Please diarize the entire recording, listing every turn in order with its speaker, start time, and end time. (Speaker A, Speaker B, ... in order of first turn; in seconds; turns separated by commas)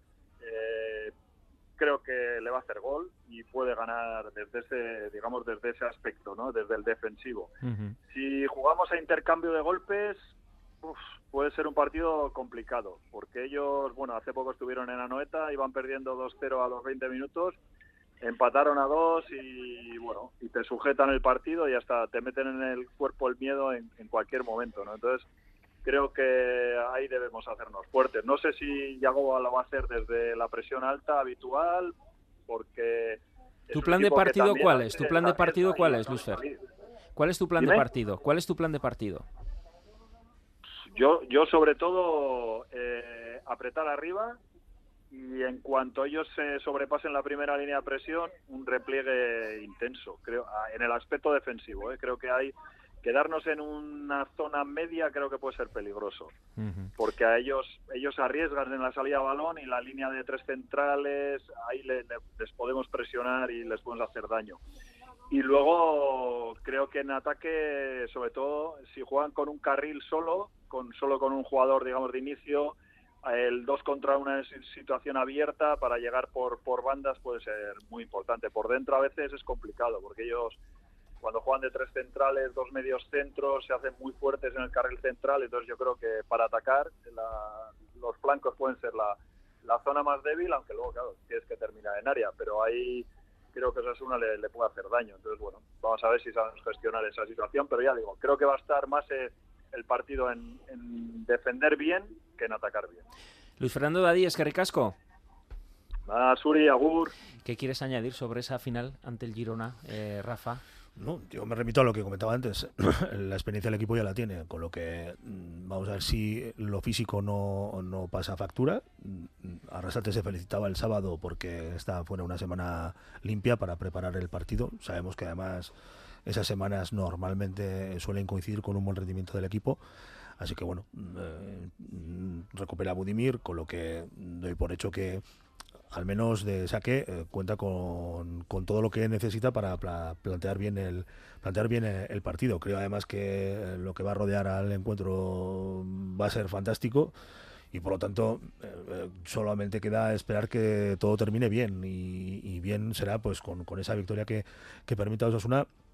Speaker A: 0.4-1.1, Speaker A: 1.8-7.5, Speaker B: 7.6-8.0, Speaker A: 8.1-10.3, Speaker A: 10.8-17.6, Speaker A: 18.2-25.3, Speaker A: 25.8-31.9, Speaker A: 32.5-36.6, Speaker B: 33.7-36.4, Speaker B: 37.2-39.3, Speaker A: 40.9-44.4, Speaker A: 45.1-56.3, Speaker B: 56.6-56.9, Speaker A: 57.0-64.6, Speaker A: 65.3-80.6, Speaker A: 81.2-103.0, Speaker B: 103.6-105.0, Speaker A: 106.1-107.1, Speaker B: 107.4-110.6, Speaker C: 111.0-125.7, Speaker C: 126.3-129.8, Speaker C: 130.4-135.2, Speaker C: 135.9-147.1, Speaker C: 147.7-155.7